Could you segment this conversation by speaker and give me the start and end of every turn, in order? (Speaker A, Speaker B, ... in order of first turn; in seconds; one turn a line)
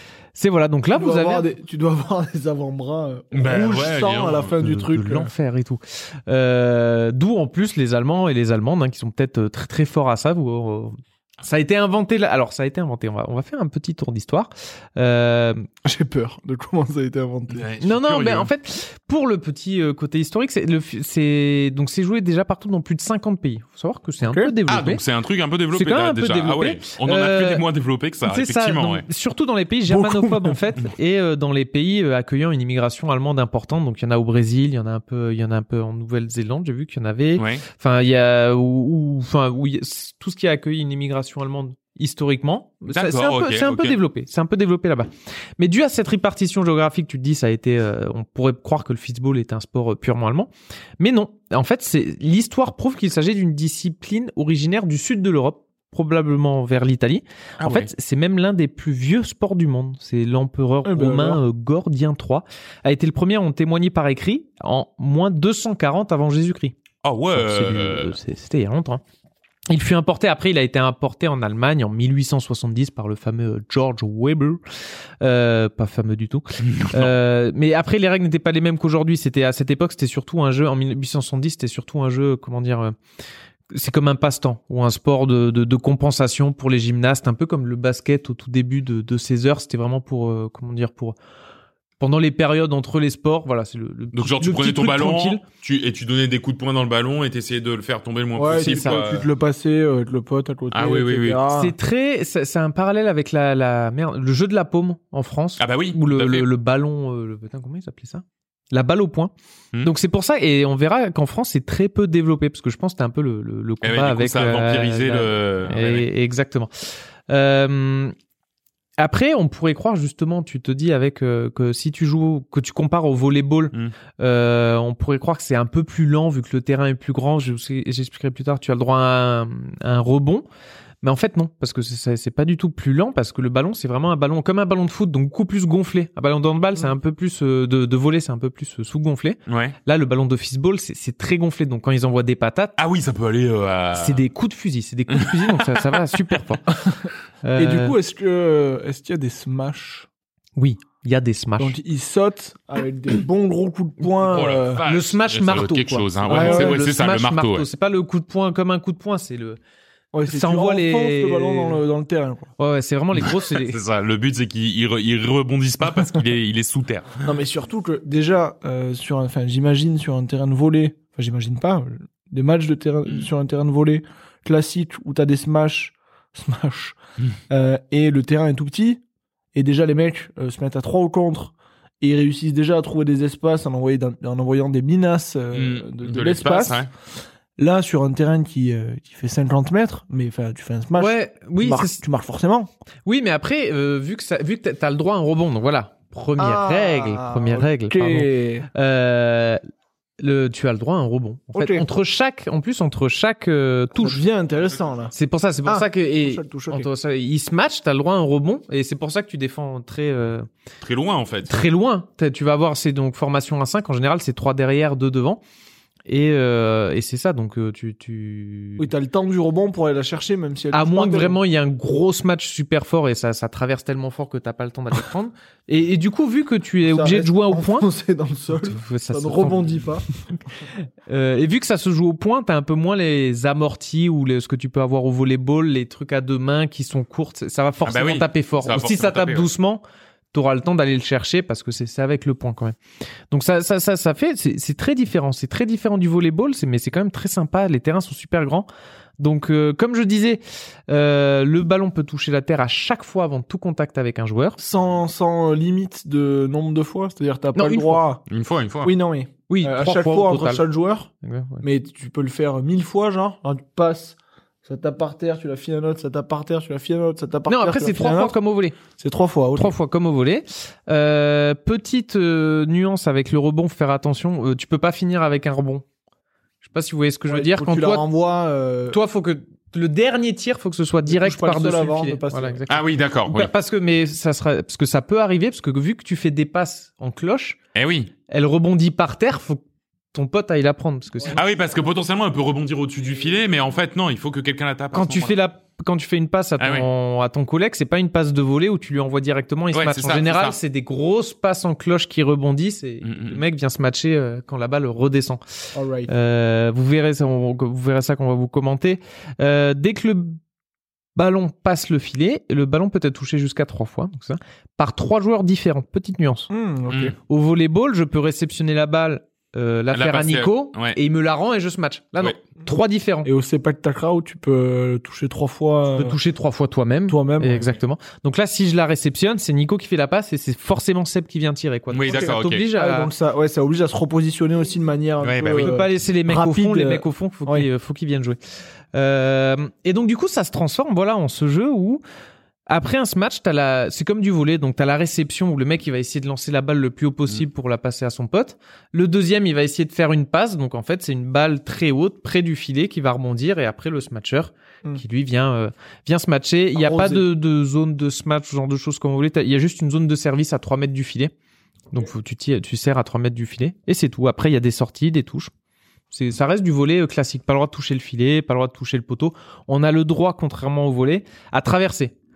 Speaker A: 0.3-1.5
Speaker B: 0.9-5.3
Speaker C: 3.3-4.5
Speaker A: 4.6-15.7
Speaker B: 15.8-17.7
Speaker C: 17.5-18.5
Speaker A: 17.8-25.0
Speaker B: 24.2-24.5
Speaker C: 24.7-29.1
Speaker A: 25.7-27.6
Speaker A: 28.2-66.8
Speaker B: 29.9-30.6
Speaker C: 37.4-37.6
Speaker C: 42.9-44.0
Speaker C: 57.6-57.9
Speaker B: 60.8-61.4
Speaker C: 67.0-68.2
Speaker A: 67.3-69.0
Speaker A: 69.7-74.6
Speaker A: 75.2-82.9
Speaker C: 76.6-77.1
Speaker A: 83.7-91.2
Speaker A: 92.0-95.4
Speaker C: 94.1-99.3
Speaker B: 98.3-101.7
Speaker A: 98.6-99.0
Speaker C: 100.7-101.4
Speaker A: 101.5-118.1
Speaker C: 105.6-106.5
Speaker C: 113.8-116.1
Speaker A: 119.0-130.4
Speaker A: 131.0-142.8
Speaker C: 139.5-139.8
Speaker C: 142.8-144.2
Speaker A: 143.9-146.7
Speaker C: 145.1-146.0
Speaker A: 147.4-147.9
Speaker B: 147.6-150.1
Speaker A: 150.6-151.8
Speaker B: 151.6-154.8
Speaker C: 154.3-157.7
Speaker A: 154.8-159.6
Speaker B: 156.2-156.9
Speaker B: 160.1-162.5
Speaker A: 160.2-161.8
Speaker A: 162.6-163.8
Speaker C: 163.2-167.2
Speaker B: 167.2-177.0
Speaker B: 177.5-179.0
Speaker B: 179.5-186.9
Speaker C: 185.5-186.9
Speaker B: 187.6-192.7
Speaker A: 191.0-192.0
Speaker A: 193.1-199.6
Speaker B: 196.4-198.7
Speaker A: 200.2-204.2
Speaker B: 201.5-201.8
Speaker B: 203.9-205.1
Speaker A: 205.1-210.5
Speaker B: 205.7-206.9
Speaker C: 210.8-211.6
Speaker A: 211.5-215.4
Speaker A: 216.1-218.9
Speaker B: 218.8-221.4
Speaker A: 220.7-227.9
Speaker B: 226.8-230.1
Speaker A: 228.6-229.8
Speaker A: 230.8-242.8
Speaker C: 237.8-239.5
Speaker A: 243.3-248.7
Speaker A: 249.2-254.6
Speaker B: 254.6-258.2
Speaker A: 257.5-258.0
Speaker C: 258.3-258.9
Speaker B: 258.8-261.1
Speaker A: 259.5-260.6
Speaker A: 261.2-261.6
Speaker B: 261.6-268.4
Speaker A: 267.5-268.8
Speaker B: 269.0-269.7
Speaker A: 269.5-275.8
Speaker A: 276.6-278.0
Speaker B: 277.3-279.0
Speaker A: 278.9-287.6
Speaker B: 281.1-282.6
Speaker C: 282.7-283.5
Speaker C: 287.7-288.1
Speaker A: 288.3-291.4
Speaker C: 291.3-295.4
Speaker A: 294.9-305.4
Speaker C: 296.6-296.9
Speaker C: 299.7-300.6
Speaker C: 303.0-303.4
Speaker B: 305.7-306.1
Speaker A: 306.1-310.4
Speaker A: 311.1-316.5
Speaker B: 316.5-317.1
Speaker C: 316.9-317.1
Speaker A: 317.3-323.3
Speaker C: 319.9-321.0
Speaker B: 323.2-326.2
Speaker A: 325.9-333.1
Speaker B: 327.1-327.7
Speaker C: 331.9-332.6
Speaker B: 332.1-337.7
Speaker C: 335.2-335.7
Speaker A: 335.6-338.4
Speaker A: 338.9-342.0
Speaker A: 342.7-361.3
Speaker B: 356.8-357.2
Speaker A: 361.9-365.5
Speaker A: 366.1-372.1